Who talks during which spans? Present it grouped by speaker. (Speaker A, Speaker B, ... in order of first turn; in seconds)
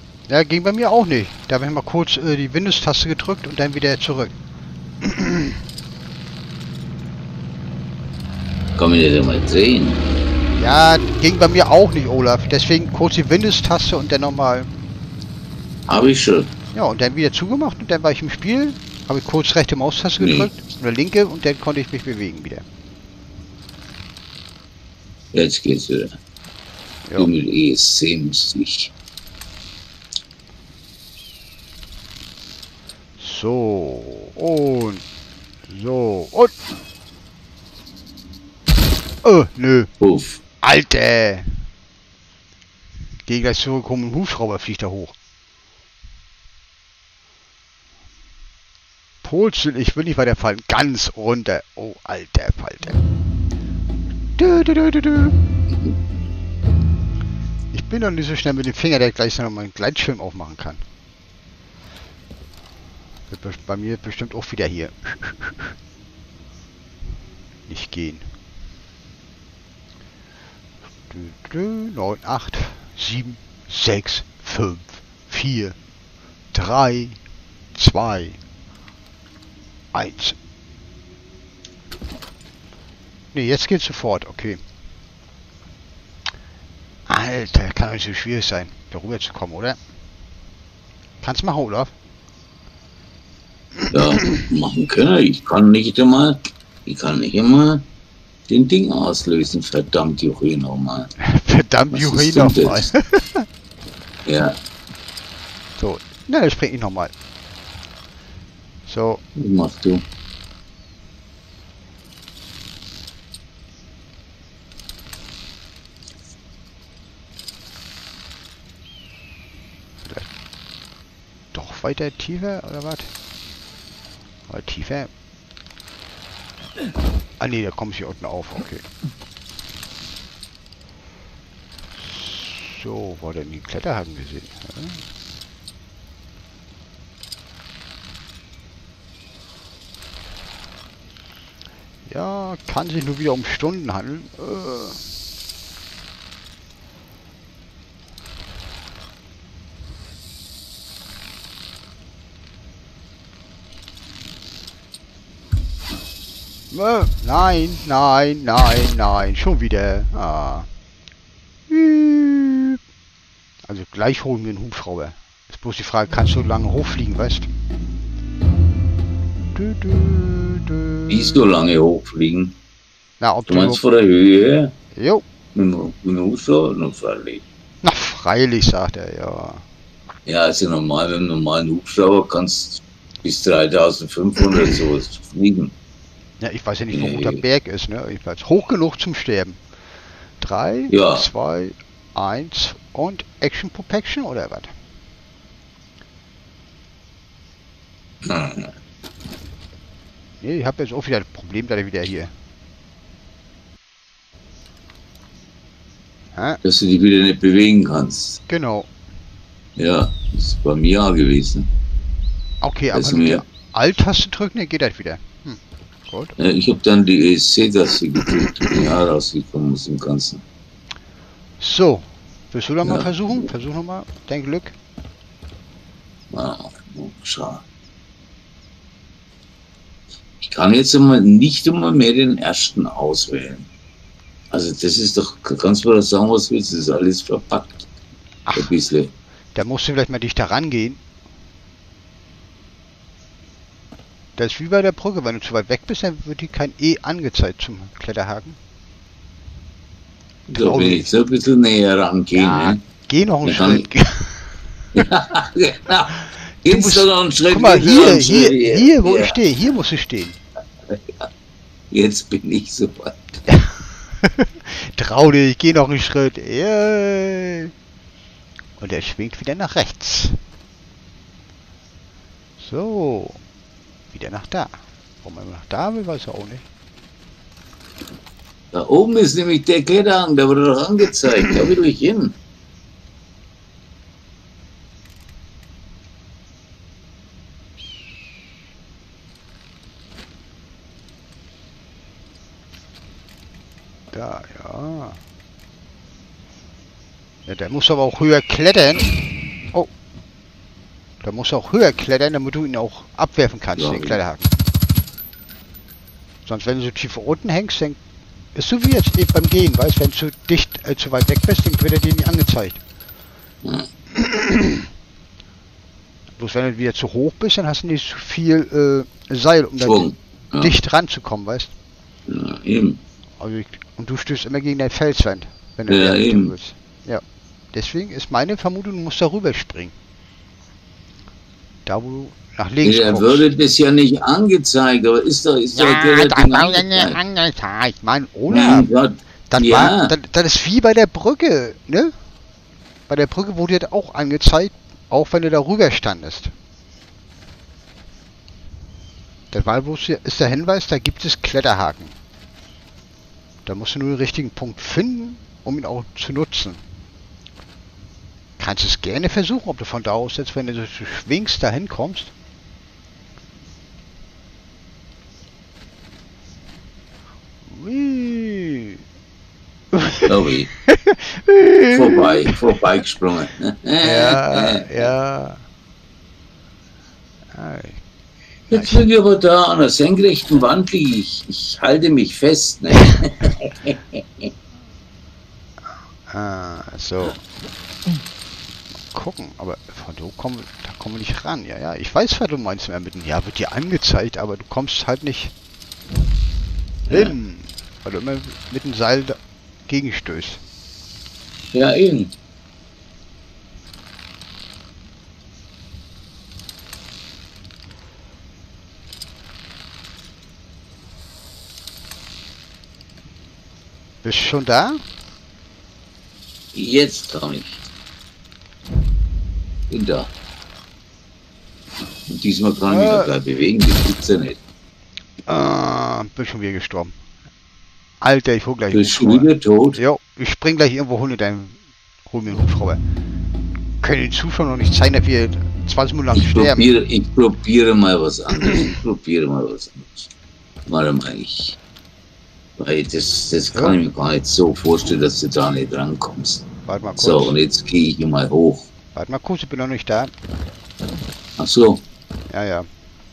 Speaker A: 0.3-4.3, 5.0-5.5, 10.5-14.7, 16.7-22.6, 33.2-35.0, 35.7-36.5, 39.2-39.9, 40.6-41.6, 43.2-45.1, 49.2-53.0, 54.4-55.4, 57.7-60.8, 63.3-65.8, 67.7-68.3, 71.1-75.8, 76.5-77.2, 77.7-78.4, 79.9-80.3, 83.3-84.6, 87.1-89.8, 91.2-91.9, 93.8-94.4, 101.2-103.5, 105.8-107.1, 108.9-109.2, 121.5-123.1, 124.5-125.1, 127.4-128.8, 132.0-135.0, 142.1-145.0, 156.7-160.7, 161.7-162.8, 163.7-167.5, 169.5-171.4, 173.2-173.8, 174.9-175.2, 177.8-179.7, 186.4-189.6, 190.4-194.7, 200.4-202.3, 206.3-206.6, 208.5-208.9, 212.6-216.3, 221.6-224.7, 238.4-238.7, 239.5-241.0, 244.4-248.6, 250.5-251.1, 252.4-254.6, 256.6-260.4, 263.5-267.7, 268.8-270.4, 272.6-273.4, 274.1-276.6, 294.1-295.2, 297.5-299.1, 301.2-304.5, 306.4-308.0, 308.5-312.8, 314.1-314.8, 316.4-320.1, 320.6-321.7, 323.4-327.2, 327.7-329.9, 331.9-333.5, 335.7-338.9, 339.5-342.1, 343.1-346.5, 349.5-352.1, 353.6-356.8, 358.6-362.3, 367.6-369.0, 369.9-370.3, 370.8-372.6, 374.0-375.6, 377.5-378.0, 378.7-379.1, 386.3-387.4, 389.1-395.5, 397.1-400.6, 414.2-415.0, 422.9-423.3, 425.5-427.1, 428.2-433.0, 434.0-436.9, 446.9-447.6, 449.1-450.3, 452.5-452.9
Speaker B: 8.8-10.0, 15.9-16.5, 20.2-20.5, 25.3-26.1, 27.2-28.9, 40.0-40.4, 93.9-97.8, 98.5-101.1, 101.9-102.9, 104.2-104.6, 109.3-110.0, 171.1-172.6, 173.5-174.7, 175.5-177.4, 180.2-185.7, 186.9-187.4, 190.9-191.3, 198.2-198.7, 206.6-208.4, 209.8-211.7, 212.9-213.4, 216.4-220.4, 222.8-223.1, 226.3-227.6, 230.4-233.7, 234.5-237.9, 238.5-239.1, 250.5-252.8, 253.4-253.8, 254.9-259.4, 261.9-263.4, 278.7-282.4, 303.8-304.2, 313.6-313.9, 319.8-320.8, 322.3-323.0, 325.9-326.5, 332.8-337.2, 338.5-340.1, 370.2-370.7, 371.9-374.8, 378.7-384.5, 397.1-397.3, 401.7-402.3, 416.7-417.8, 419.9-420.3, 422.3-424.6, 428.9-430.0, 436.3-440.3, 440.9-441.8, 442.8-448.9, 451.6-452.0